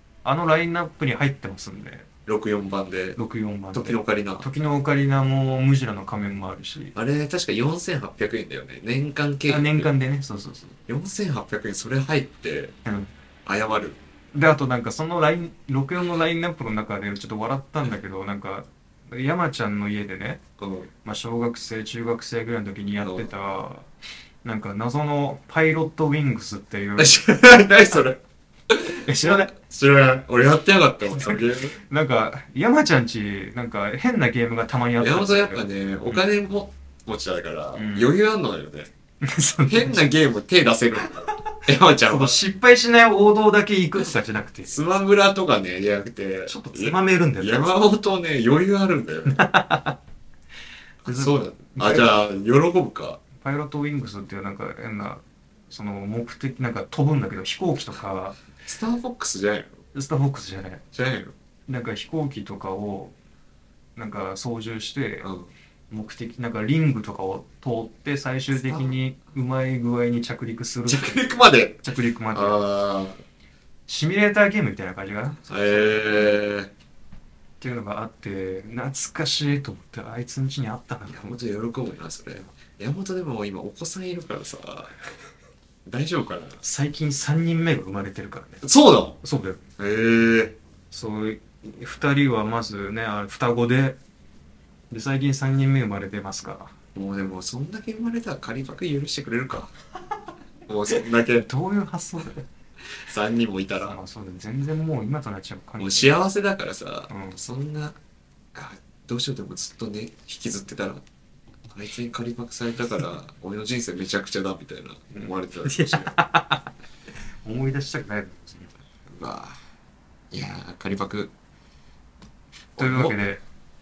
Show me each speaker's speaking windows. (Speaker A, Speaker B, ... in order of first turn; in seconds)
Speaker A: 0.2-2.0, 3.1-6.9, 9.5-10.7, 14.3-20.4, 21.0-23.9, 24.4-27.2, 29.1-29.5, 31.1-36.2, 37.8-38.1, 39.2-40.0, 42.0-44.8, 46.5-47.7, 49.3-50.0, 51.0-52.1, 53.4-58.4, 59.9-60.8, 61.7-63.1, 64.0-65.3, 65.9-71.2, 71.8-72.6, 73.9-76.4, 77.6-81.3, 86.6-88.6, 89.2-89.6, 90.9-94.0, 94.9-96.7, 101.4-102.4, 103.8-106.2, 107.1-107.4, 115.1-116.7, 117.4-118.8, 122.8-123.4
Speaker B: 2.2-3.2, 3.7-4.5, 6.9-9.9, 10.9-12.7, 13.4-14.0, 20.6-20.9, 23.0-23.3, 27.0-31.8, 35.0-38.9, 39.7-42.4, 44.6-49.4, 51.0-53.2, 58.6-59.8, 60.9-61.3, 65.2-65.5, 68.5-68.9, 70.9-73.2, 75.5-76.7, 81.1-84.9, 85.8-86.6, 88.6-89.2, 89.8-90.6, 96.9-99.7, 100.7-101.5, 103.1-104.0, 105.8-108.0, 108.5-111.0, 111.7-116.1, 119.1-119.5, 120.3-121.3, 122.8-123.3